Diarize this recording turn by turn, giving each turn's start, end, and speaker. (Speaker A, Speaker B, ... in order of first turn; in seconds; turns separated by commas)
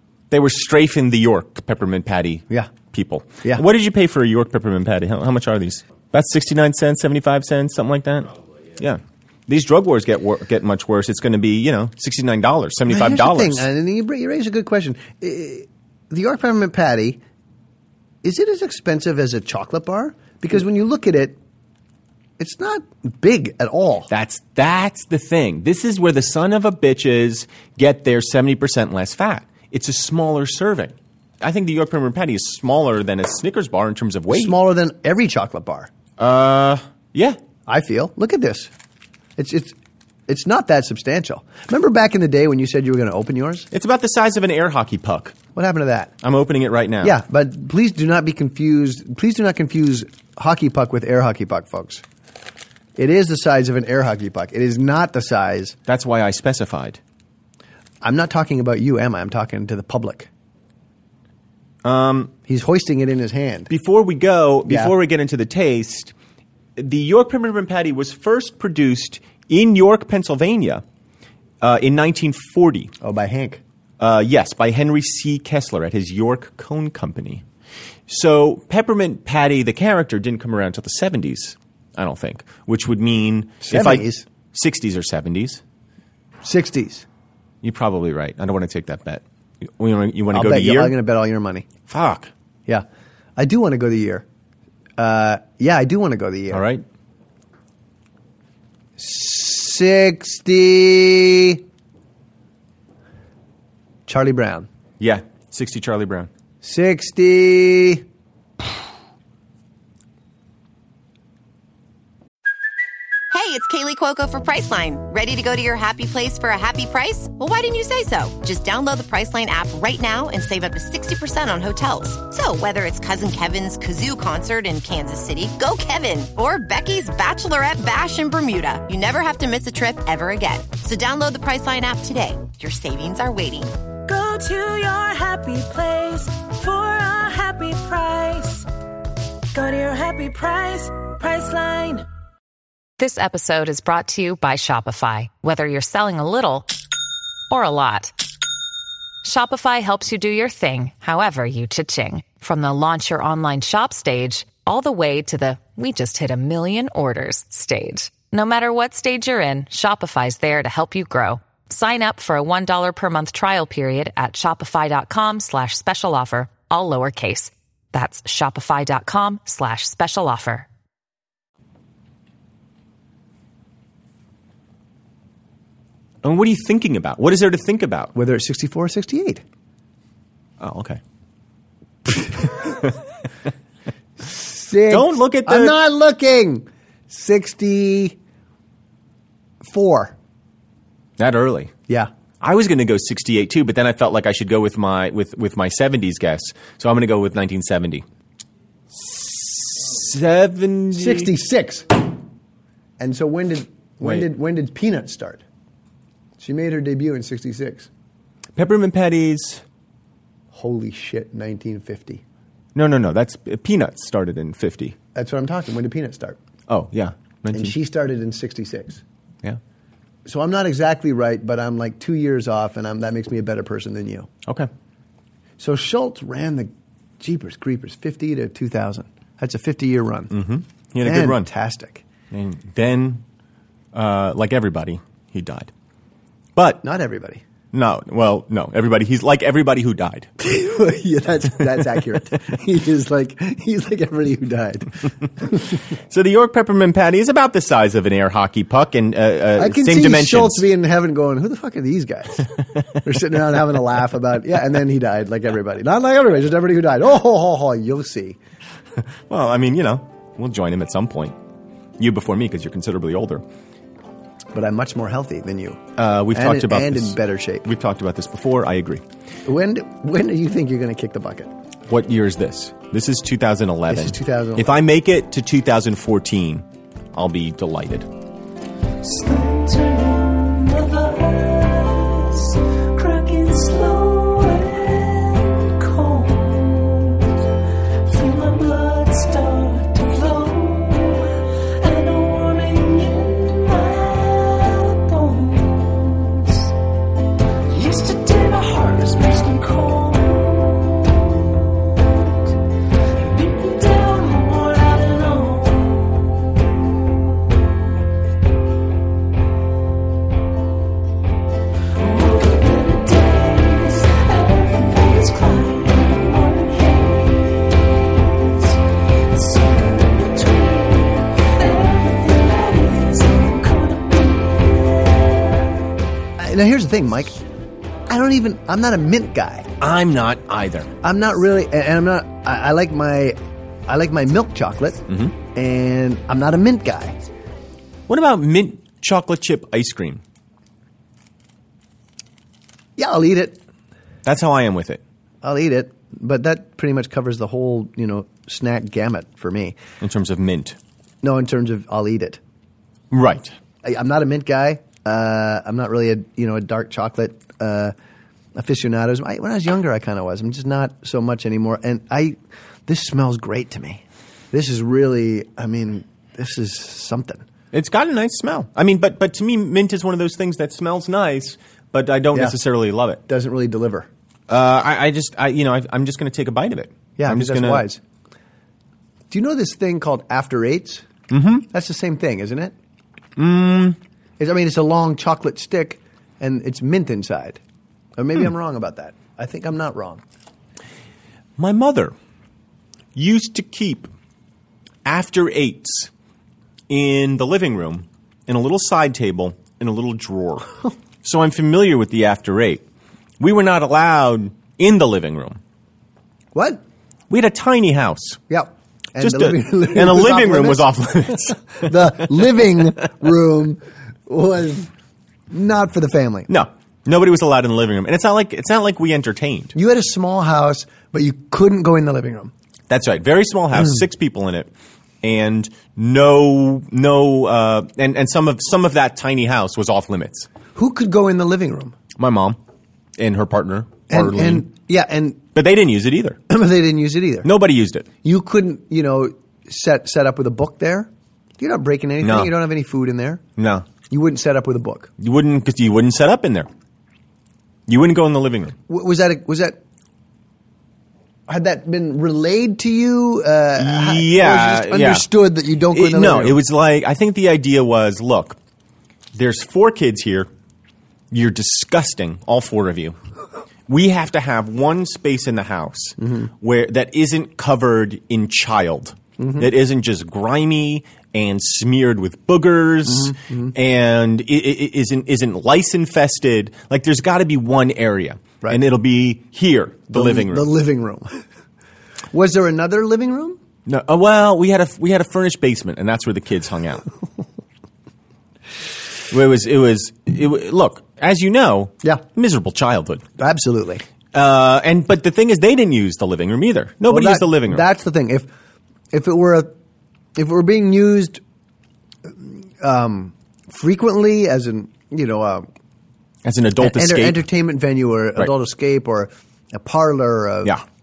Speaker A: 0.3-13.7, Speaker B: 12.9-17.2, Speaker B: 18.2-21.4, Speaker B: 22.4-24.1, Speaker A: 24.1-34.6, Speaker B: 34.3-35.9, Speaker A: 36.2-37.4, Speaker B: 37.7-38.7, Speaker B: 39.4-39.8, Speaker B: 40.3-43.7, Speaker A: 43.7-45.4, Speaker B: 45.5-46.1, Speaker A: 46.2-47.2, Speaker B: 47.0-52.0, Speaker B: 53.0-55.8, Speaker A: 55.9-57.0, Speaker B: 58.0-60.3, Speaker A: 61.8-62.3, Speaker B: 62.5-63.7, Speaker A: 63.7-66.1, Speaker B: 64.7-64.9, Speaker A: 66.8-70.8, Speaker A: 71.6-72.9, Speaker B: 73.0-73.6, Speaker A: 74.0-77.4, Speaker A: 78.1-85.6, Speaker B: 83.6-84.2, Speaker B: 86.4-87.1, Speaker A: 87.6-91.0, Speaker B: 90.3-91.7, Speaker A: 91.9-92.3, Speaker B: 93.4-94.2, Speaker B: 95.0-96.7, Speaker A: 96.5-96.8, Speaker B: 99.0-101.6, Speaker B: 104.1-104.7, Speaker A: 105.0-106.3, Speaker B: 106.6-108.0, Speaker C: 113.3-133.8, Speaker D: 134.1-138.7, Speaker D: 139.5-142.1, Speaker E: 143.0-146.7, Speaker E: 147.5-148.1, Speaker E: 149.2-170.7, Speaker A: 176.2-178.1, Speaker B: 178.2-179.4, Speaker A: 180.6-181.0, Speaker B: 182.2-182.5, Speaker B: 184.2-188.2, Speaker A: 184.9-185.8, Speaker B: 189.6-190.2, Speaker A: 191.2-191.7, Speaker A: 192.4-198.1, Speaker A: 198.9-201.3, Speaker B: 200.9-202.0, Speaker B: 203.0-205.4, Speaker A: 204.0-204.3, Speaker B: 206.4-207.9, Speaker A: 208.6-209.6, Speaker B: 210.5-212.2, Speaker A: 212.8-215.0, Speaker B: 215.2-216.4, Speaker A: 216.7-217.8, Speaker B: 217.5-219.0, Speaker B: 220.3-224.3, Speaker B: 225.6-230.3, Speaker A: 230.3-231.5, Speaker B: 231.0-232.0, Speaker A: 232.3-233.2, Speaker A: 233.9-235.7, Speaker A: 236.6-236.8, Speaker B: 236.8-237.4, Speaker A: 237.7-240.3, Speaker B: 240.4-245.8, Speaker A: 246.1-250.7, Speaker B: 249.6-258.4, Speaker A: 259.3-261.4, Speaker A: 262.0-263.4, Speaker B: 264.5-265.8, Speaker A: 266.0-269.0, Speaker B: 266.3-267.7, Speaker B: 269.4-271.5, Speaker A: 271.9-278.1, Speaker B: 273.9-274.7, Speaker D: 279.0-287.3, Speaker D: 288.1-296.7, Speaker D: 297.7-301.7, Speaker D: 303.2-306.6, Speaker D: 312.0-318.8, Speaker D: 319.3-325.5, Speaker B: 326.4-327.4, Speaker B: 328.1-329.7, Speaker A: 329.8-330.9, Speaker B: 331.0-335.0, Speaker A: 335.1-335.4, Speaker B: 335.5-337.2, Speaker A: 338.1-340.2, Speaker B: 343.0-343.6, Speaker A: 344.2-345.0, Speaker B: 345.4-349.8, Speaker A: 350.0-350.8, Speaker B: 351.2-352.4, Speaker A: 353.1-353.5, Speaker B: 353.8-357.9, Speaker B: 358.6-367.4, Speaker A: 367.7-373.2, Speaker B: 373.3-374.1, Speaker A: 374.5-377.9, Speaker B: 377.2-378.0, Speaker B: 379.3-381.1, Speaker A: 381.3-381.7, Speaker B: 381.7-382.7, Speaker A: 383.4-384.0, Speaker B: 384.4-387.6, Speaker B: 388.2-390.2, Speaker A: 391.6-392.1, Speaker A: 393.1-394.1, Speaker A: 395.1-396.1, Speaker A: 396.9-400.7, Speaker A: 401.2-402.8, Speaker A: 403.4-405.6, Speaker B: 406.5-406.8, Speaker A: 407.3-408.4, Speaker B: 408.5-414.9, Speaker A: 409.2-412.3, Speaker B: 415.5-416.5, Speaker A: 416.5-419.8, Speaker B: 419.8-422.5, Speaker A: 422.9-424.7, Speaker A: 425.2-430.5, Speaker B: 430.8-432.0, Speaker A: 432.2-432.6, Speaker A: 433.2-434.7, Speaker B: 434.1-435.4, Speaker A: 435.6-436.4, Speaker B: 436.5-437.5, Speaker A: 437.4-438.1, Speaker B: 438.2-443.4, Speaker A: 442.2-442.5, Speaker A: 443.6-443.9, Speaker B: 444.1-445.1, Speaker A: 445.2-446.7, Speaker A: 447.9-448.8, Speaker B: 448.9-449.8, Speaker B: 451.5-456.6, Speaker A: 453.8-455.3, Speaker A: 455.9-458.6, Speaker A: 459.3-460.5, Speaker A: 461.3-463.2, Speaker A: 463.9-480.7, Speaker B: 466.2-466.5, Speaker B: 469.4-469.7, Speaker B: 473.1-473.7, Speaker B: 480.1-481.4, Speaker B: 482.3-483.6, Speaker A: 483.9-487.1, Speaker A: 489.3-493.2, Speaker B: 493.4-494.0, Speaker A: 494.3-497.9, Speaker B: 497.1-498.5, Speaker B: 499.1-499.7, Speaker B: 500.4-501.4, Speaker B: 502.3-505.7, Speaker A: 506.4-507.4, Speaker B: 506.8-510.8